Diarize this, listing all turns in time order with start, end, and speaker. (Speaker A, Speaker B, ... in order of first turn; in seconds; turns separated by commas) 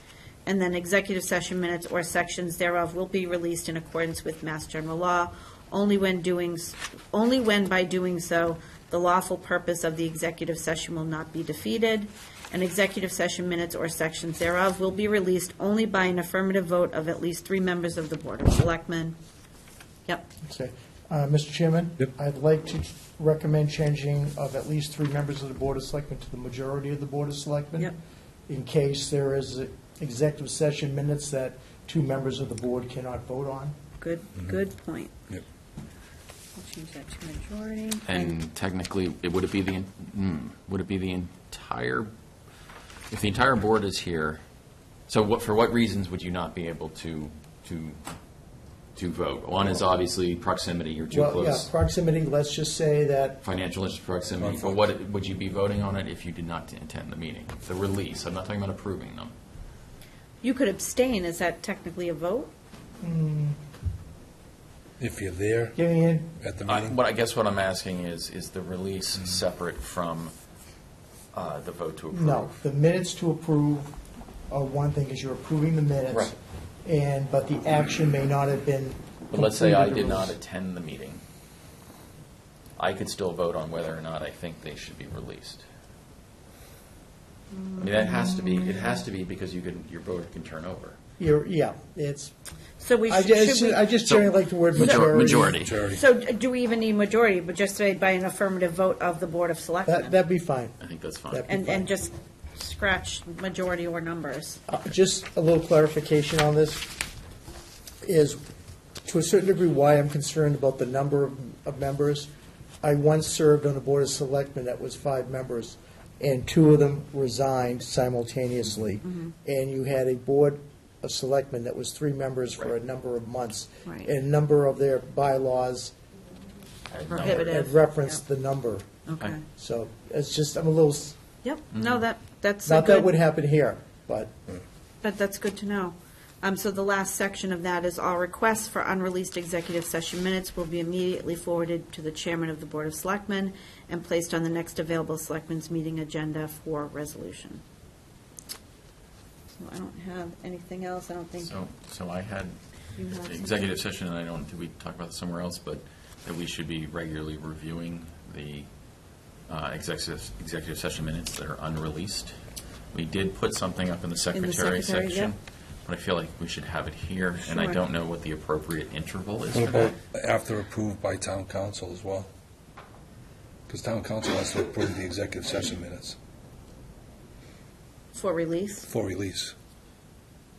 Speaker A: 0.5-19.2, Speaker B: 20.5-28.0, Speaker B: 28.5-33.8, Speaker A: 34.0-35.1, Speaker A: 36.6-38.4, Speaker C: 38.0-42.1, Speaker C: 43.1-44.4, Speaker C: 45.1-48.0, Speaker C: 49.0-51.7, Speaker B: 51.1-53.4, Speaker C: 53.4-59.3, Speaker D: 54.4-54.8, Speaker A: 60.4-62.5, Speaker B: 63.0-63.6, Speaker D: 65.0-65.8, Speaker B: 65.8-66.3, Speaker D: 66.4-67.0, Speaker C: 66.7-70.3, Speaker C: 71.3-72.6, Speaker B: 72.1-74.0, Speaker B: 74.5-80.3, Speaker C: 79.3-81.2, Speaker C: 82.8-85.6, Speaker C: 87.8-91.0, Speaker B: 91.2-92.3, Speaker A: 92.8-94.0, Speaker B: 93.1-95.6, Speaker C: 94.0-95.8, Speaker D: 95.1-96.0, Speaker A: 95.7-100.2, Speaker B: 99.8-100.8, Speaker C: 100.8-101.5, Speaker B: 101.3-101.9, Speaker A: 101.5-104.6, Speaker B: 104.7-106.9, Speaker B: 108.0-108.4, Speaker B: 109.0-112.3, Speaker B: 112.8-126.0, Speaker A: 119.0-119.3, Speaker A: 123.8-124.1, Speaker C: 126.9-127.5, Speaker A: 127.1-127.8, Speaker B: 127.2-128.9, Speaker A: 129.1-129.4, Speaker B: 129.5-131.2, Speaker A: 131.4-133.1, Speaker B: 132.7-134.3, Speaker A: 135.0-147.6, Speaker A: 149.6-151.6, Speaker C: 151.4-158.7, Speaker A: 153.0-153.6, Speaker C: 159.5-162.3, Speaker C: 162.9-170.0, Speaker A: 164.3-165.3, Speaker A: 167.4-167.8, Speaker D: 169.5-172.3, Speaker D: 173.7-176.2, Speaker A: 178.1-178.9, Speaker D: 178.9-179.6